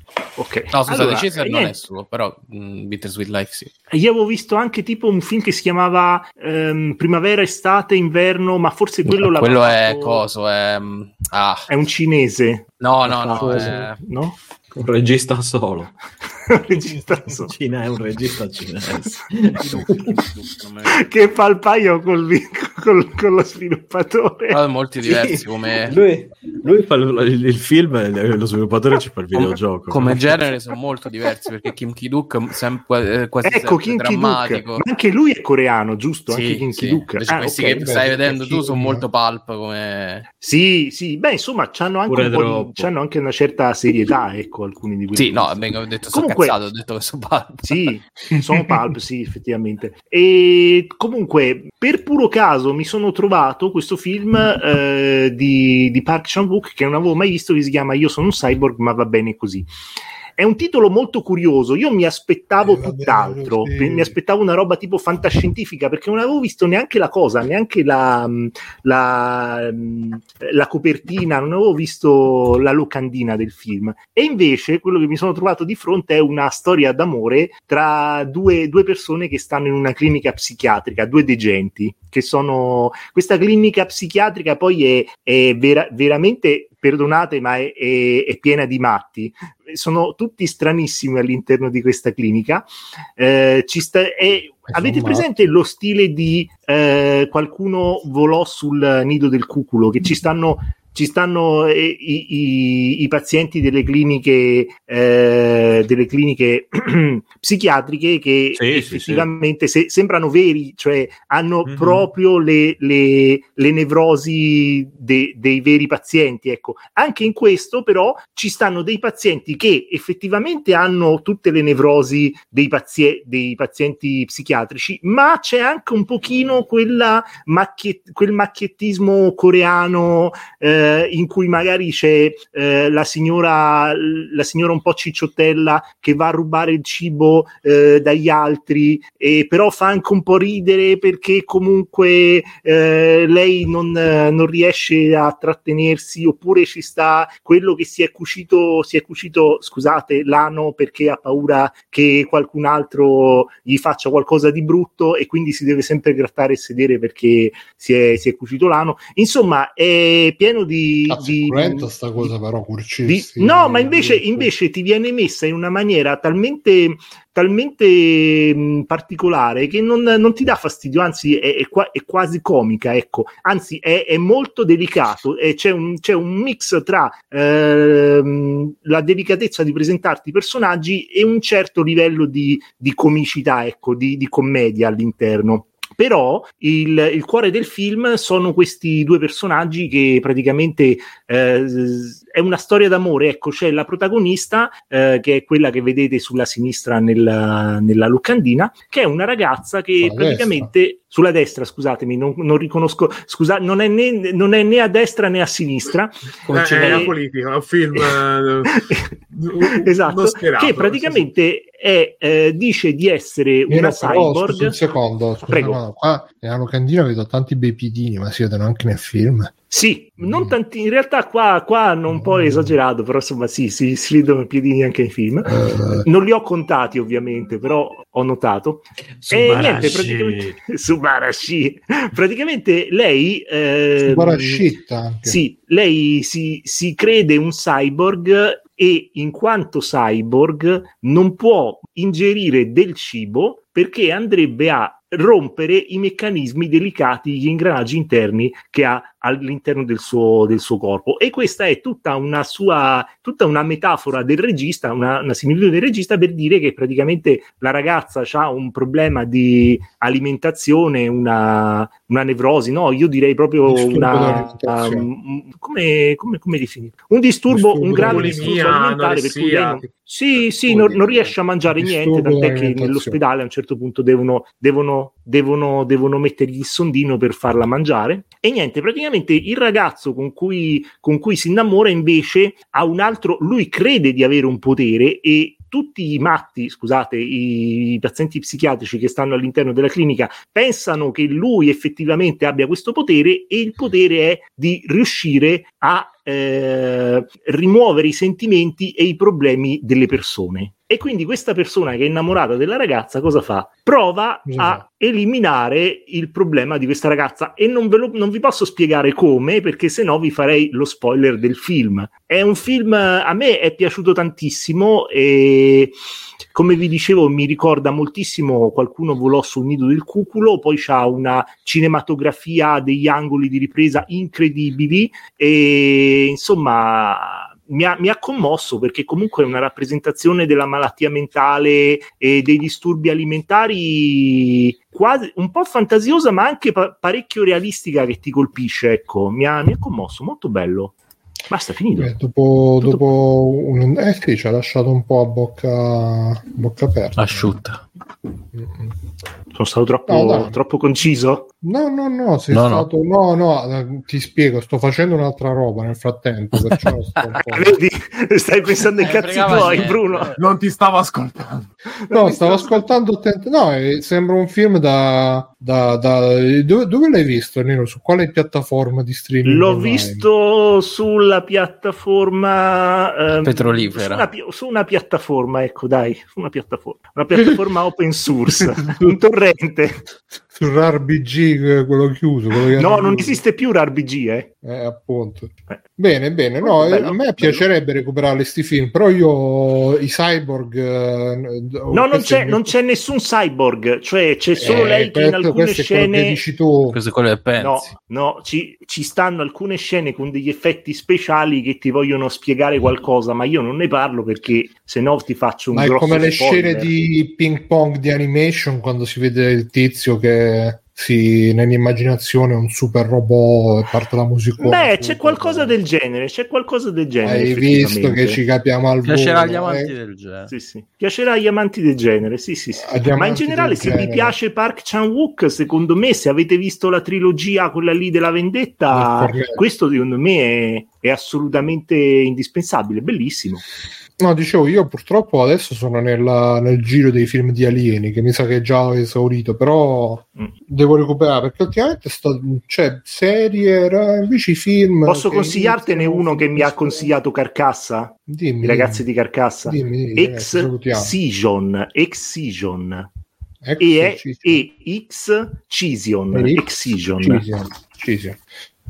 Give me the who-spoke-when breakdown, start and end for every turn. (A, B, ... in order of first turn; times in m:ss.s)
0:00.4-0:01.8 A
0:00.7-0:03.7 B
0:03.9-0:10.3 A
0:09.2-0:11.7 B
0:11.7-0:14.4 A
0:12.8-0:14.0 B
0:13.4-0:13.8 C
0:14.8-0:15.9 D
0:16.5-0:17.5 A
0:17.3-0:20.3 D
0:19.6-0:21.0 B
0:20.9-0:24.6 A
0:24.5-0:26.0 B
0:25.0-0:30.4 D
0:29.3-0:34.8 B
0:33.4-0:38.2 A
0:36.3-0:40.3 B
0:37.7-0:39.1 C
0:40.4-0:46.6 A
0:42.1-0:42.9 D
0:45.2-0:47.9 B
0:47.7-0:59.7 A
1:00.4-2:42.3 A
1:02.6-1:04.2 C
1:34.7-1:35.3 C
1:48.6-1:49.3 D
1:51.7-1:52.1 D
2:41.1-2:44.5 C
2:43.1-3:27.2 A
3:20.0-3:20.7 C
3:26.5-3:31.3 E
3:28.8-3:29.1 A
3:29.6-3:34.8 A
3:33.7-3:39.5 C
3:35.5-3:35.8 A
3:39.7-5:16.0 A
3:40.2-3:40.6 C
3:42.1-3:42.8 C
3:45.5-3:46.1 C
3:49.2-3:50.6 D
3:54.0-3:55.4 C
4:23.7-4:25.1 C
4:27.5-4:28.8 C
4:27.9-4:29.9 E
4:30.7-4:31.1 E
4:31.7-4:33.2 C
5:04.5-5:04.8 C
5:16.5-5:40.9 A
5:41.5-5:42.1 A
5:42.0-5:47.6 C
5:47.2-5:47.8 B
5:48.5-5:48.9 C
5:49.5-5:51.5 A
5:50.1-5:50.6 C
5:51.6-5:57.8 C
5:52.5-5:52.9 B
5:56.6-5:56.9 B
5:57.5-6:00.3 A
5:59.0-6:00.4 B
6:00.4-6:01.7 E
6:01.9-6:02.9 A
6:02.1-6:10.3 C
6:09.4-6:20.0 A
6:13.4-6:14.3 B
6:18.8-6:19.2 C
6:20.5-6:23.4 C
6:22.8-6:24.5 A
6:24.6-6:32.8 C
6:26.6-6:27.7 A
6:31.9-6:36.4 A
6:34.6-6:37.0 C
6:36.9-6:37.9 B
6:37.6-6:46.9 A
6:45.7-6:55.8 C
6:54.6-6:58.4 A
6:57.2-6:59.9 C
6:59.0-7:00.5 B
7:00.5-7:13.6 A
7:02.8-7:04.4 C
7:08.9-7:09.6 C
7:14.2-7:27.1 C
7:25.1-7:33.1 A
7:28.3-7:29.1 C
7:29.6-7:31.2 C
7:33.6-7:34.6 C
7:33.8-7:37.5 A
7:36.3-7:38.4 C